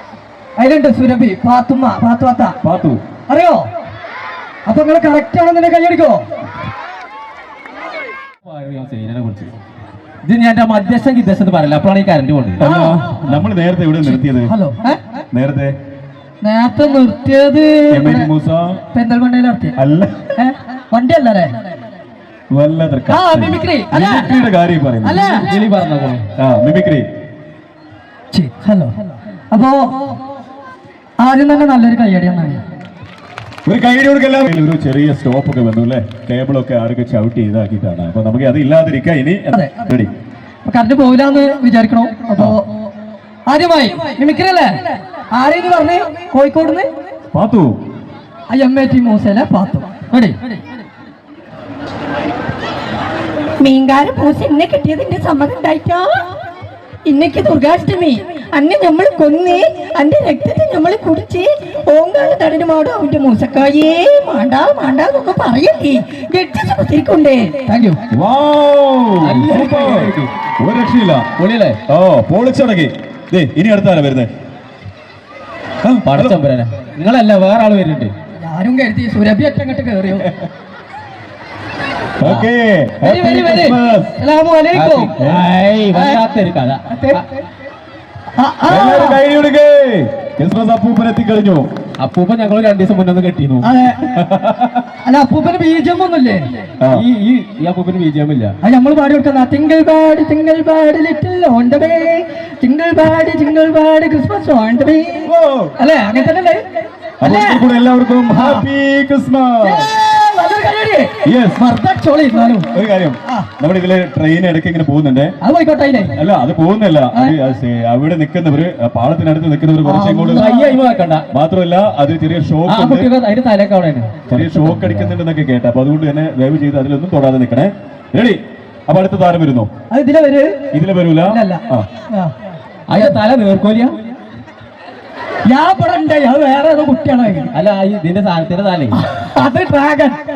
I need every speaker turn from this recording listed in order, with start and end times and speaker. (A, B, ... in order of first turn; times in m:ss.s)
0:00.6-0:02.6 A
0:02.6-0:03.0 B
0:03.3-0:03.6 A
0:04.6-0:06.2 A
0:08.4-0:09.5 C
0:10.2-0:12.6 C
0:12.6-0:14.5 B
0:12.6-0:13.2 A
0:14.0-0:15.0 A
0:15.3-0:15.7 B
0:16.4-0:18.3 A
0:17.9-0:18.8 B
0:18.9-0:19.8 A
0:19.8-0:20.2 B
0:20.4-0:21.6 A
0:22.5-0:25.3 B
0:23.1-0:24.4 A
0:25.0-0:25.5 A
0:25.4-0:26.2 C
0:26.4-0:27.1 B
0:28.3-0:28.9 A
0:29.5-0:30.0 A
0:31.2-0:32.6 A
0:33.6-0:40.1 B
0:40.6-0:42.6 A
0:43.5-0:46.9 A
0:47.3-0:47.8 B
0:48.5-0:50.5 A
0:53.6-0:56.4 D
0:57.0-1:07.6 D
1:07.7-1:08.0 A
1:08.1-1:11.3 B
1:09.2-1:10.3 C
1:11.4-1:11.8 C
1:11.9-1:14.3 B
1:15.8-1:16.4 B
1:16.0-1:18.1 C
1:18.4-1:20.2 A
1:20.2-1:20.5 B
1:22.2-1:24.1 B
1:22.2-1:22.5 C
1:23.0-1:25.1 A
1:24.7-1:27.2 C
1:25.2-1:25.5 B
1:25.9-1:26.2 A
1:26.9-1:27.2 A
1:28.4-1:29.2 A
1:28.7-1:31.7 B
1:32.0-1:33.7 C
1:33.6-1:34.0 A
1:34.1-1:34.8 B
1:35.0-1:36.4 A
1:36.9-1:38.5 C
1:38.6-1:46.6 A
1:45.2-1:45.7 B
1:47.2-1:47.6 A
1:47.2-1:49.9 B
1:48.3-1:48.6 A
1:49.6-1:52.6 A
1:51.2-1:51.6 B
1:52.7-1:55.4 B
1:55.4-1:56.2 A
1:56.1-2:00.5 B
1:59.8-2:00.7 A
2:00.3-2:01.2 C
2:01.3-2:03.1 B
2:02.7-2:05.2 C
2:04.3-2:09.7 B
2:09.9-2:10.6 A
2:10.7-2:11.9 B
2:11.2-2:12.3 A
2:12.9-2:14.0 C
2:15.5-2:17.5 A
2:17.5-2:19.0 C
2:18.9-2:20.2 A